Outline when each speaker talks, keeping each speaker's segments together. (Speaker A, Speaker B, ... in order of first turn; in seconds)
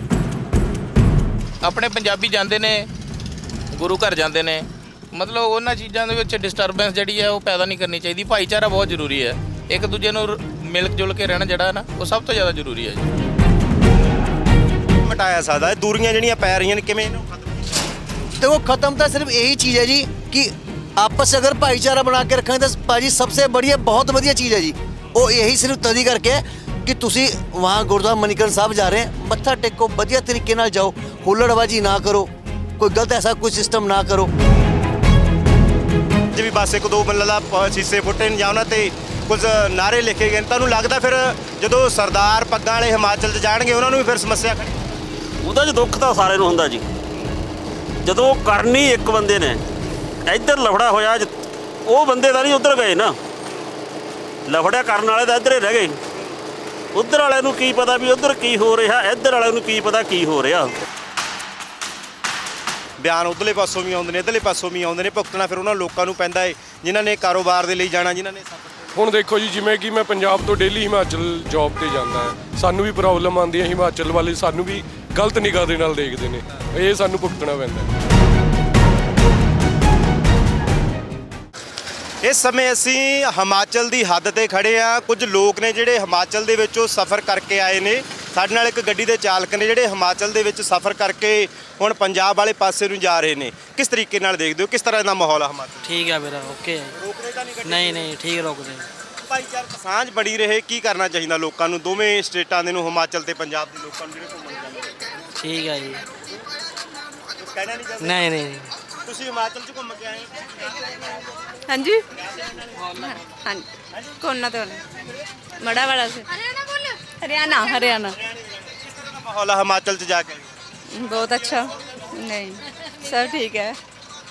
Speaker A: 1.6-2.9, 3.7-13.1
Speaker B: 15.0-17.9, 36.3-44.9, 63.0-68.9, 82.2-96.0, 97.0-98.1, 99.3-105.0, 107.4-108.3, 109.0-111.2, 112.2-112.6, 118.1-120.5, 121.1-122.1
Speaker C: 18.4-34.3
Speaker D: 45.4-46.9, 48.0-49.6, 50.3-51.3, 51.9-53.2, 54.5-56.0, 57.0-60.7
Speaker E: 69.0-77.9
Speaker F: 95.8-96.9, 97.6-98.9, 105.4-106.0, 108.0-108.7
Speaker G: 111.7-112.0, 113.0-113.7, 114.2-114.8, 115.6-116.3, 117.1-118.2, 120.9-123.8